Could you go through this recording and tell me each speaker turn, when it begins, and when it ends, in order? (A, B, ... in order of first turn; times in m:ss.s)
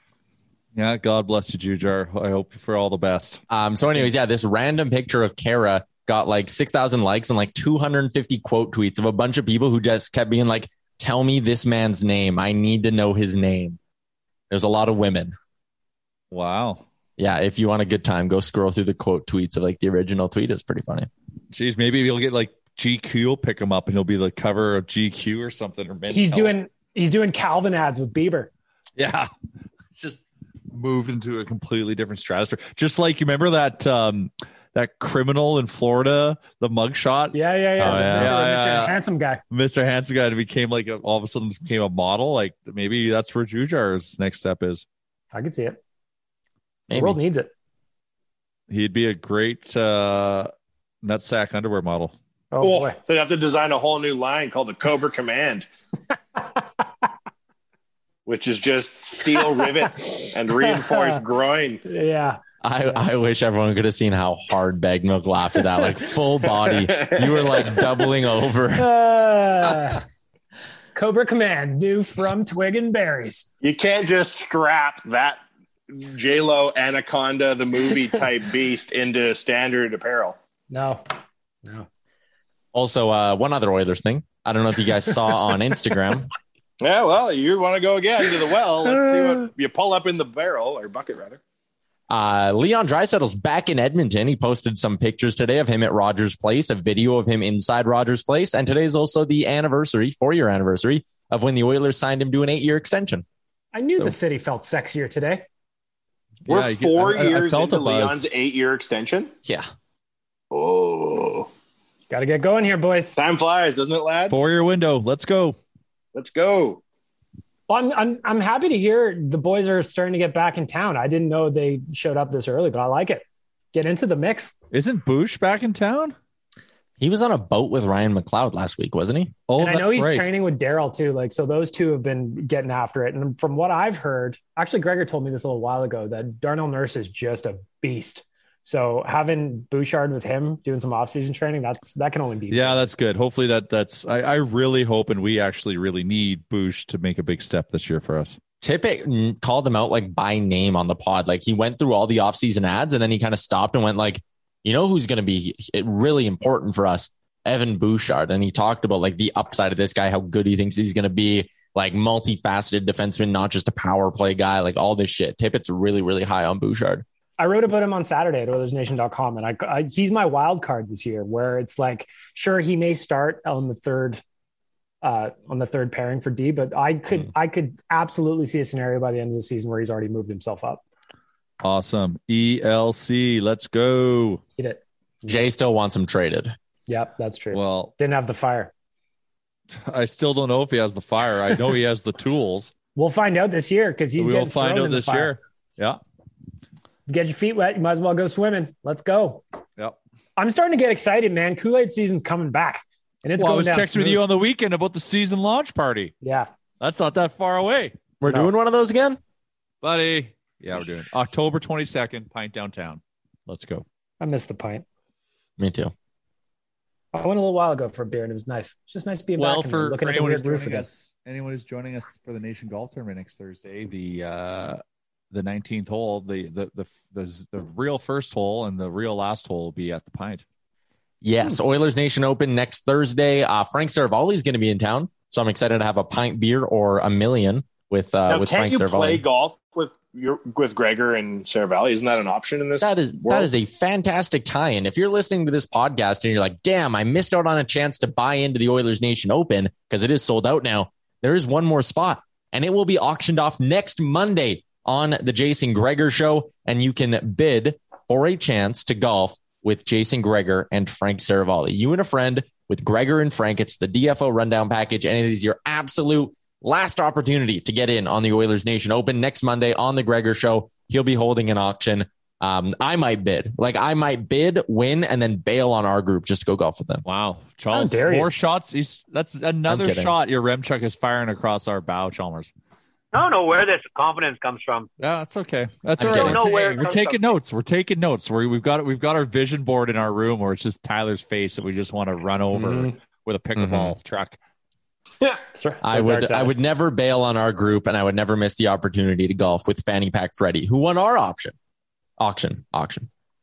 0:00.7-0:03.4 A
0:03.5-0:13.8 B
0:14.5-0:15.4 B
0:16.3-0:16.8 A
0:17.2-0:21.1 B
0:21.5-0:26.6 A
0:26.1-0:28.5 C
0:29.0-0:29.3 A
0:30.0-0:39.0 A
0:37.3-0:39.4 C
0:37.8-0:38.4 B
0:39.5-0:44.8 A
0:45.3-0:45.8 C
0:46.9-0:47.2 B
0:46.9-0:47.5 C
0:48.7-0:50.5 A
0:51.0-0:52.2 A
0:52.5-0:53.0 C
0:52.6-0:55.7 D
0:58.3-1:01.8 D
0:59.3-1:01.2 C
1:01.8-1:02.4 C
1:02.6-1:08.9 B
1:06.6-1:07.7 D
1:08.8-1:10.0 C
1:11.0-1:13.5 C
1:13.6-1:20.4 D
1:20.7-1:21.0 C
1:22.7-1:26.3 B
1:26.8-1:31.4 D
1:32.1-1:43.3 B
1:43.7-1:45.4 C
1:46.5-1:48.3 A
1:46.5-1:49.3 D
1:50.5-1:51.5 D
1:52.1-1:53.2 C
1:53.2-1:54.4 D
1:54.3-1:55.6 A
1:56.1-1:56.8 D
1:57.7-2:04.5 C
2:04.7-2:06.2 A
2:07.0-2:09.4 B
2:09.5-2:10.3 A
2:09.6-2:22.8 C
2:22.5-2:28.4 A
2:28.6-2:47.0 B
2:47.4-2:54.2 C
2:55.0-3:00.8 C
3:01.6-3:04.4 A
3:05.3-3:06.6 B
3:06.9-3:08.7 C
3:07.5-3:07.9 A
3:09.7-3:12.7 A
3:13.0-3:15.4 C
3:14.2-3:16.0 A
3:17.1-3:19.4 C
3:20.4-3:24.2 C
3:23.4-3:26.1 A
3:26.2-3:26.5 C
3:26.8-3:28.0 A
3:28.2-3:29.2 B
3:28.3-3:28.5 C
3:29.8-3:33.8 A
3:34.2-3:34.8 C
3:35.6-3:35.9 B
3:37.1-3:40.9 C
3:39.4-3:50.4 A
3:51.2-3:59.2 B
3:58.3-4:03.5 D
4:02.8-4:37.0 B
4:37.0-4:42.5 A
4:37.7-4:38.3 C
4:39.7-4:40.1 B
4:43.1-4:44.9 E
4:45.0-4:54.4 A
4:46.0-4:46.4 B
4:46.1-4:47.2 E
4:52.5-4:52.9 C
4:53.6-4:54.0 B
4:55.6-4:56.5 C
4:55.8-5:01.6 B
5:02.2-5:03.1 B